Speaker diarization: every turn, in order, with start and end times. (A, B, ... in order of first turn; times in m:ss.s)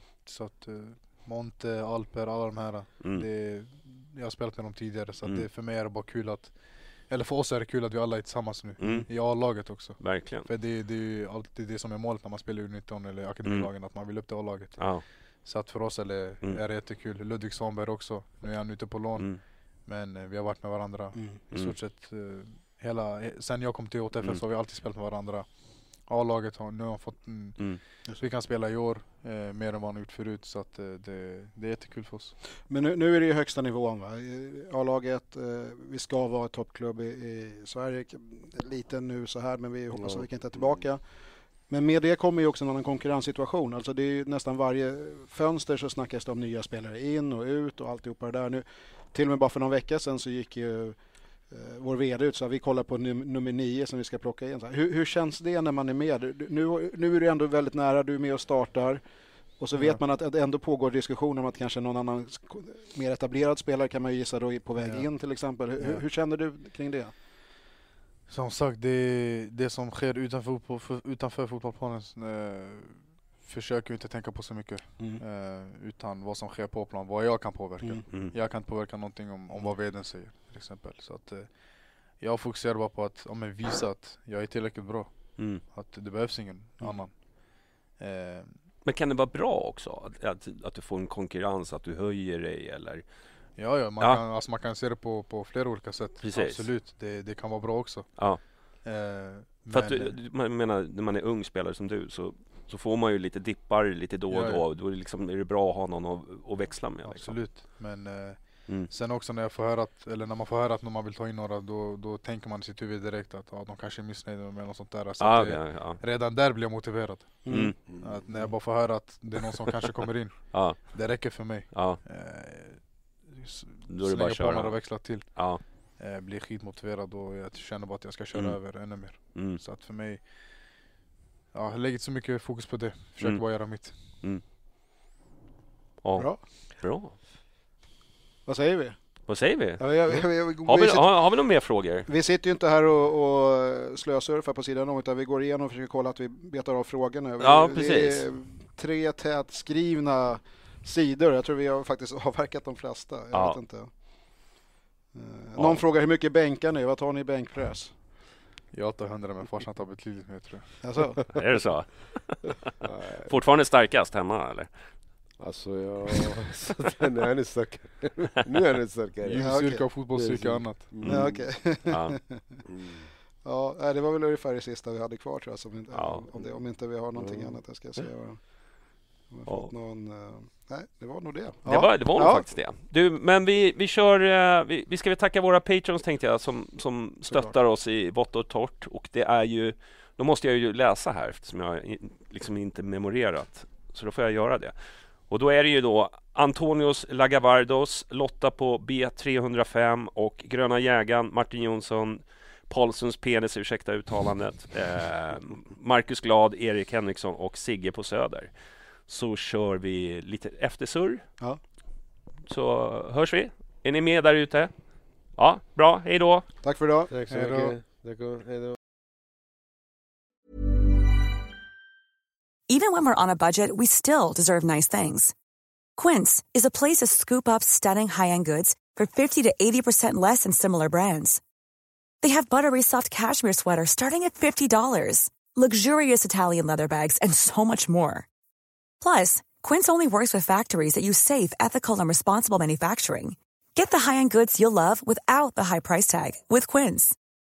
0:00.2-0:32.4 A
0:03.0-0:03.3 B
0:08.8-0:10.5 B
0:13.4-0:13.7 B
0:14.8-0:15.0 B
0:32.6-1:07.1 C
0:39.9-0:41.0 D
0:59.7-1:00.0 A
1:04.8-1:06.0 A
1:08.3-1:28.6 A
1:17.8-1:18.0 C
1:25.4-1:25.6 B
1:28.8-1:33.0 B
1:33.6-1:40.2 A
1:36.2-1:36.7 B
1:39.7-1:47.8 B
1:44.3-1:44.6 A
1:47.0-2:10.8 A
1:55.2-1:56.0 B
1:57.4-1:58.5 C
1:57.5-1:57.8 B
1:57.8-1:58.4 D
2:00.5-2:02.0 B
2:03.9-2:05.6 B
2:08.3-2:09.6 B
2:11.5-2:14.2 A
2:13.2-2:14.4 B
2:16.0-2:17.2 B
2:16.2-2:16.4 C
2:18.4-2:34.5 C
2:19.3-2:22.1 B
2:27.4-2:28.3 B
2:33.3-2:33.6 B
2:35.1-2:38.0 C
2:35.6-2:35.8 B
2:38.7-2:41.2 A
2:40.8-2:41.2 C
2:41.4-2:42.6 B
2:42.8-2:43.4 D
2:43.3-2:45.1 B
2:45.4-2:51.8 D
2:49.2-2:51.0 A
2:49.3-2:49.9 C
2:51.0-2:52.6 C
2:51.9-2:52.2 B
2:52.6-2:53.1 D
2:53.4-3:02.5 C
2:55.9-2:56.3 B
2:56.3-2:57.6 D
2:59.4-2:59.7 B
3:01.6-3:31.8 B
3:07.2-3:07.6 C
3:32.4-3:36.5 B
3:36.6-3:37.1 C
3:37.1-3:38.8 D
3:37.3-3:37.8 A
3:42.7-3:45.3 E
3:46.0-3:51.4 E
3:52.2-3:58.3 E
3:59.0-4:07.1 E